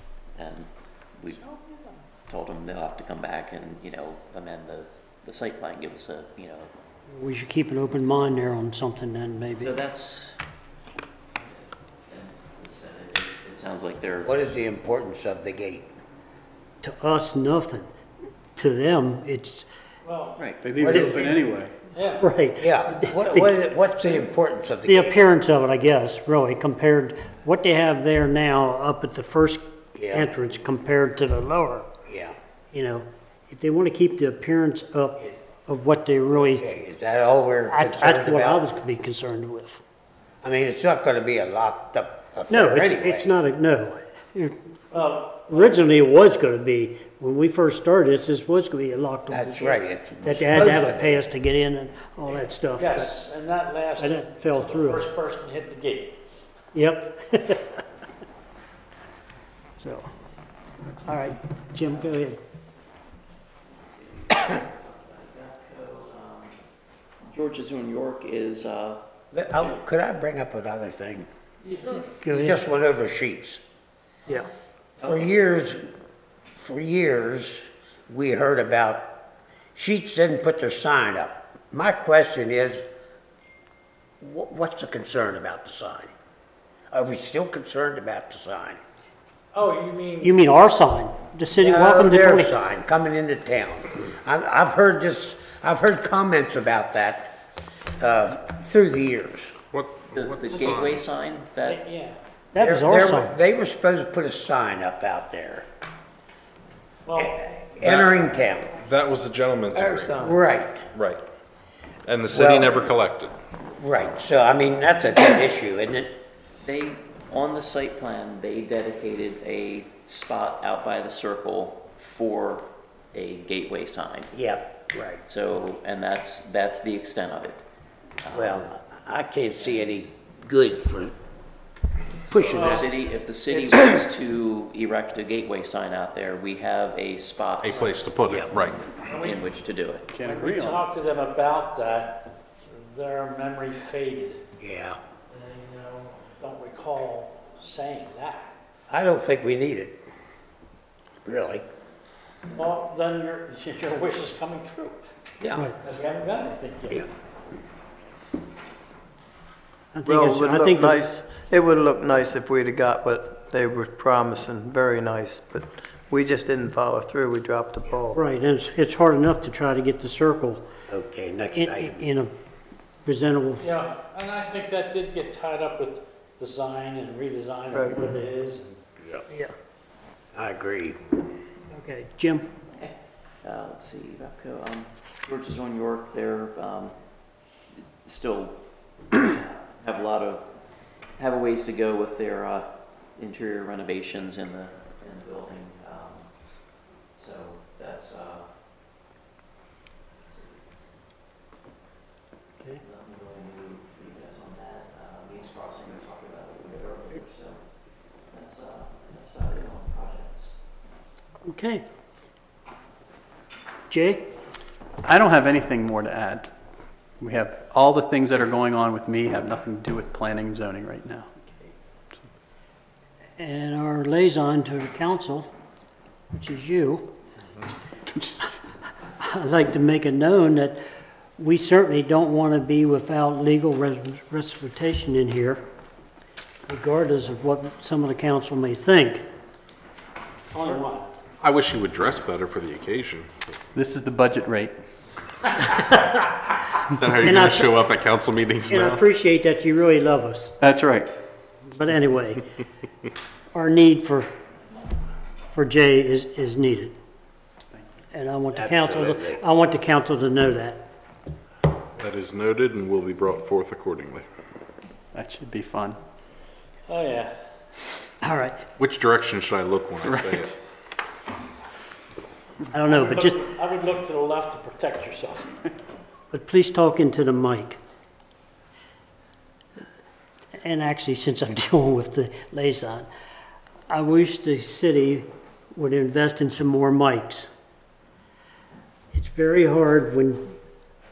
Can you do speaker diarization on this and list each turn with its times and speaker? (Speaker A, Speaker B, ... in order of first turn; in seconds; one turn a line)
Speaker A: 0.3-1.4
Speaker B: 1.4-2.0
Speaker A: 2.3-6.7
Speaker C: 7.1-9.7
Speaker A: 9.5-10.4
Speaker A: 11.4-14.3
Speaker D: 14.2-15.9
Speaker C: 16.8-17.9
Speaker C: 18.6-19.6
Speaker B: 20.0-20.4
Speaker E: 20.6-21.9
Speaker D: 20.8-21.4
Speaker B: 21.9-22.3
Speaker C: 22.2-23.5
Speaker D: 22.6-25.2
Speaker C: 24.9-29.6
Speaker D: 29.9-30.3
Speaker C: 30.1-31.9
Speaker D: 32.1-32.4
Speaker C: 32.7-36.6
Speaker D: 36.3-38.6
Speaker C: 37.7-39.8
Speaker D: 40.4-43.3
Speaker C: 42.5-44.5
Speaker B: 44.9-45.8
Speaker C: 45.5-53.1
Speaker D: 49.3-51.2
Speaker B: 52.8-56.2
Speaker C: 54.0-55.1
Speaker C: 56.7-57.8
Speaker C: 59.8-60.0
Speaker C: 61.0-62.4
Speaker A: 63.7-66.6
Speaker A: 67.3-69.0
Speaker D: 69.3-71.3
Speaker A: 71.7-72.0
Speaker C: 72.2-72.6
Speaker D: 72.3-73.6
Speaker D: 75.0-75.9
Speaker D: 76.5-79.1
Speaker D: 79.7-82.8
Speaker D: 84.2-86.1
Speaker D: 86.9-88.8
Speaker B: 89.5-90.3
Speaker C: 90.2-92.5
Speaker D: 91.6-97.3
Speaker D: 98.0-99.5
Speaker F: 99.7-101.0
Speaker A: 100.1-101.8
Speaker B: 101.6-102.2
Speaker C: 102.5-103.3
Speaker D: 102.6-105.7
Speaker B: 107.0-107.4
Speaker D: 107.2-108.8
Speaker F: 107.8-110.2
Speaker G: 109.7-110.4
Speaker D: 110.2-110.8
Speaker F: 110.9-111.2
Speaker F: 112.0-113.3
Speaker D: 112.3-112.8
Speaker D: 113.7-116.1
Speaker A: 116.6-124.3
Speaker D: 124.3-125.2
Speaker A: 125.2-127.6
Speaker A: 128.2-128.8
Speaker D: 128.3-131.1
Speaker A: 129.6-130.0
Speaker D: 132.3-132.9
Speaker A: 132.4-137.9
Speaker B: 132.5-132.8
Speaker B: 133.5-133.8
Speaker F: 137.6-138.9
Speaker D: 138.2-138.5
Speaker B: 139.0-139.4
Speaker A: 139.2-140.1
Speaker E: 140.1-140.8
Speaker B: 140.2-144.4
Speaker D: 144.6-145.0
Speaker A: 145.5-146.1
Speaker B: 146.4-148.5
Speaker D: 148.9-150.0
Speaker D: 151.2-151.7
Speaker B: 152.5-155.1
Speaker D: 155.4-155.7
Speaker B: 155.8-157.1
Speaker C: 159.9-161.0
Speaker G: 160.0-168.2
Speaker C: 168.1-170.6
Speaker D: 170.9-172.1
Speaker C: 171.5-172.3
Speaker C: 173.1-173.7
Speaker B: 173.6-178.8
Speaker G: 177.7-178.0
Speaker D: 179.0-179.2
Speaker D: 180.3-181.0
Speaker C: 181.7-182.5
Speaker A: 182.7-186.9
Speaker A: 187.8-188.6
Speaker A: 189.1-190.4
Speaker A: 191.2-196.6
Speaker A: 197.1-198.5
Speaker A: 200.2-200.6
Speaker A: 202.8-207.7
Speaker A: 208.2-210.5
Speaker C: 211.4-211.8
Speaker C: 213.9-214.2
Speaker E: 215.0-216.5
Speaker E: 217.2-221.7
Speaker C: 223.4-225.5
Speaker C: 226.3-227.1
Speaker E: 228.1-228.4
Speaker C: 229.2-230.8
Speaker C: 231.4-235.6
Speaker C: 236.7-239.2
Speaker B: 240.5-241.1
Speaker F: 241.4-243.3
Speaker E: 243.7-244.7
Speaker C: 245.7-246.1
Speaker F: 246.8-248.9
Speaker C: 247.2-247.8
Speaker C: 248.7-250.6
Speaker E: 250.6-251.1
Speaker C: 251.7-252.4
Speaker C: 253.5-254.3
Speaker C: 255.5-256.9
Speaker C: 258.1-260.8
Speaker D: 258.5-259.4
Speaker F: 262.0-264.2
Speaker E: 265.1-266.0
Speaker B: 266.9-267.3
Speaker C: 268.2-268.6
Speaker F: 268.8-270.5
Speaker E: 270.0-270.5
Speaker C: 272.7-273.5
Speaker B: 272.9-275.5
Speaker C: 276.3-277.8
Speaker C: 280.6-283.1
Speaker C: 283.9-287.5
Speaker C: 289.1-290.5